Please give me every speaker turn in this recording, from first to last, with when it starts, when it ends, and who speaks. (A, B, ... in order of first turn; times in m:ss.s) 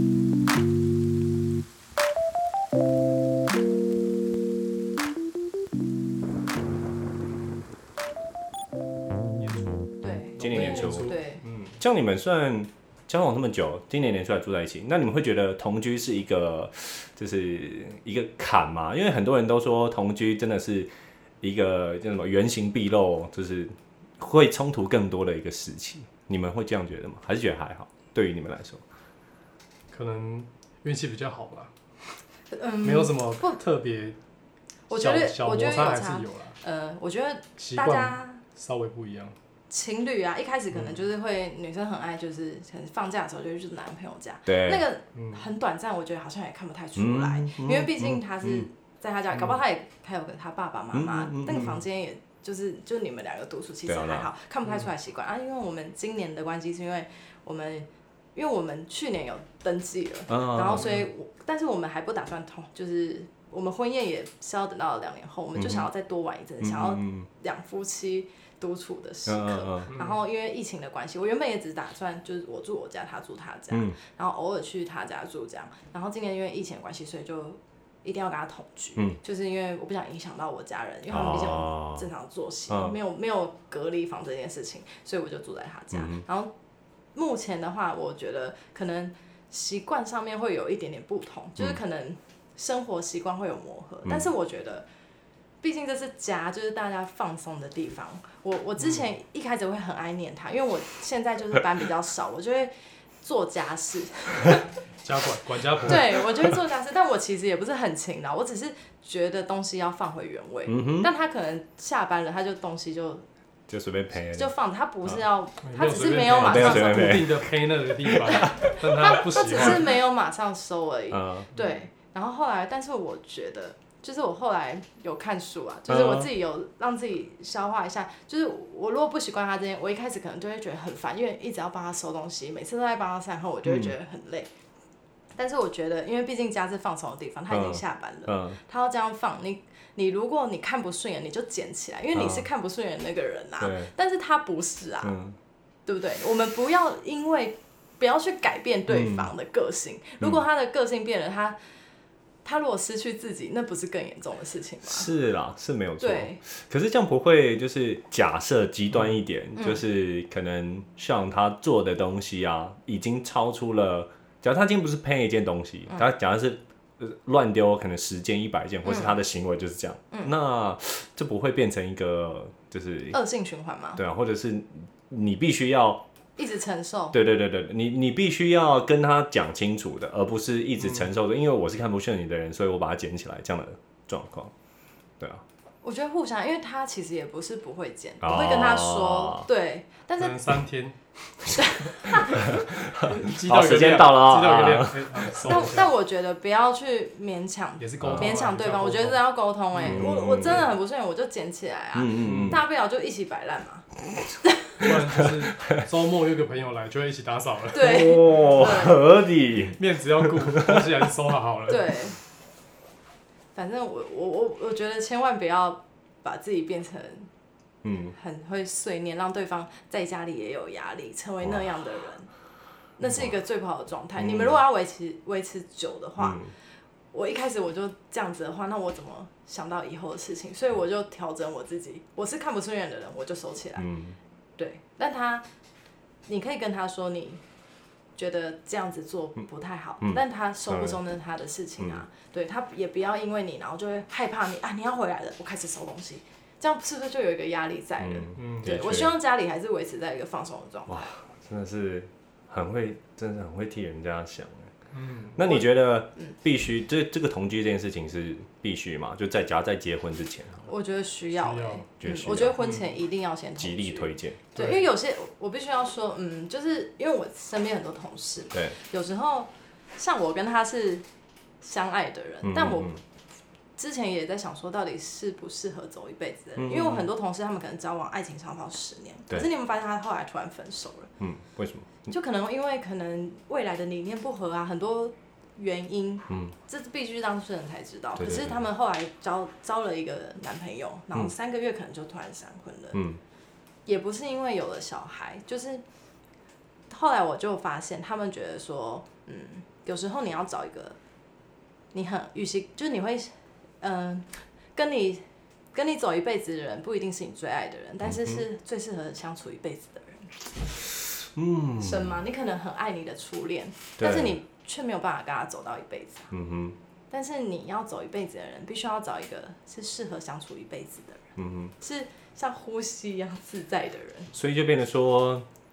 0:09.4-0:11.8 A
0:10.0-0:11.4 B
0:10.4-0:11.2 C
0:11.8-0:20.9 C
0:21.4-0:28.8 C
0:29.9-0:31.7 A
0:32.5-0:33.6 B
0:32.8-0:34.2 A
0:34.9-0:38.4 B
0:34.9-0:36.6 A
0:37.6-0:39.4 A
0:39.7-1:26.5 B
0:40.7-0:41.0 A
0:44.5-0:44.9 C
0:45.2-0:45.4 A
0:47.0-0:48.7 C
0:50.9-0:51.8 C
0:51.5-0:51.8 A
0:53.9-0:54.3 C
1:00.3-1:00.9 C
1:00.8-1:01.1 A
1:05.5-1:05.9 C
1:06.6-1:07.3 C
1:09.2-1:09.9 C
1:09.9-1:10.2 A
1:13.7-1:14.0 C
1:21.1-1:22.1 C
1:22.7-1:23.0 C
1:25.9-1:26.2 C
1:27.1-1:34.8 B
1:35.6-1:44.7 B
1:45.0-1:46.3 A
1:45.8-1:53.2 B
1:50.7-1:51.1 C
1:53.7-1:54.5 C
1:54.3-1:57.4 B
1:55.6-2:00.0 A
1:56.4-1:57.5 C
1:58.0-1:58.8 C
1:58.2-2:14.5 B
2:01.1-2:01.5 C
2:05.9-2:06.3 C
2:13.6-2:13.9 C
2:15.4-2:25.1 B
2:17.5-2:18.6 C
2:22.1-2:22.5 C
2:23.6-2:23.9 C
2:25.0-2:25.4 C
2:25.8-2:31.6 B
2:28.9-2:29.3 C
2:32.4-2:35.1 B
2:34.8-2:53.2 C
2:36.0-2:36.4 B
2:39.6-2:39.8 B
2:48.8-2:49.2 B
2:53.1-2:54.0 B
2:54.0-2:56.0 C
2:56.4-2:57.2 B
2:57.1-3:04.5 C
3:00.8-3:01.1 A
3:05.8-3:10.6 B
3:08.2-3:09.5 C
3:10.2-3:11.0 A
3:11.5-3:12.4 B
3:12.1-3:15.7 C
3:13.0-3:15.9 A
3:15.4-3:23.9 B
3:17.8-3:20.7 A
3:18.0-3:18.3 C
3:19.8-3:20.6 C
3:21.9-3:22.6 C
3:22.2-3:22.6 A
3:24.4-3:24.8 B
3:24.8-3:28.1 A
3:25.6-3:25.8 C
3:27.7-3:29.0 B
3:27.8-3:30.8 C
3:29.8-3:31.9 A
3:31.7-3:32.2 B
3:33.5-3:37.3 B
3:37.8-3:38.1 C
3:38.1-3:42.3 B
3:43.0-3:46.4 B
3:44.2-3:44.6 C
3:46.2-3:46.5 C
3:47.1-3:53.8 B
3:53.8-3:54.2 C
3:54.6-3:55.4 B
3:56.3-3:57.4 B
3:58.2-4:11.1 B
4:00.0-4:01.0 C
4:08.0-4:09.1 C
4:08.4-4:08.8 A
4:10.9-4:14.7 C
4:14.9-4:15.5 A
4:15.4-4:20.7 C
4:20.7-4:31.0 B
4:21.4-4:21.8 A
4:22.0-4:22.6 C
4:22.6-4:22.9 A
4:23.6-4:24.4 C
4:24.6-4:24.9 A
4:31.6-4:32.9 B
4:32.4-4:33.0 C
4:33.8-4:41.1 B
4:36.6-4:37.1 C
4:41.2-4:42.1 C
4:42.1-4:53.0 B
4:48.2-4:48.6 C
4:52.9-4:53.2 C
4:53.8-4:55.8 B
4:56.9-5:01.0 B
5:01.9-5:05.2 B
5:05.7-5:10.4 B
5:08.0-5:08.4 C
5:11.3-5:12.2 C
5:11.8-5:16.3 B
5:14.0-5:14.4 C
5:16.3-5:16.8 C
5:17.1-5:21.2 B
5:21.4-5:21.7 C
5:21.8-5:24.3 B
5:24.3-5:25.4 C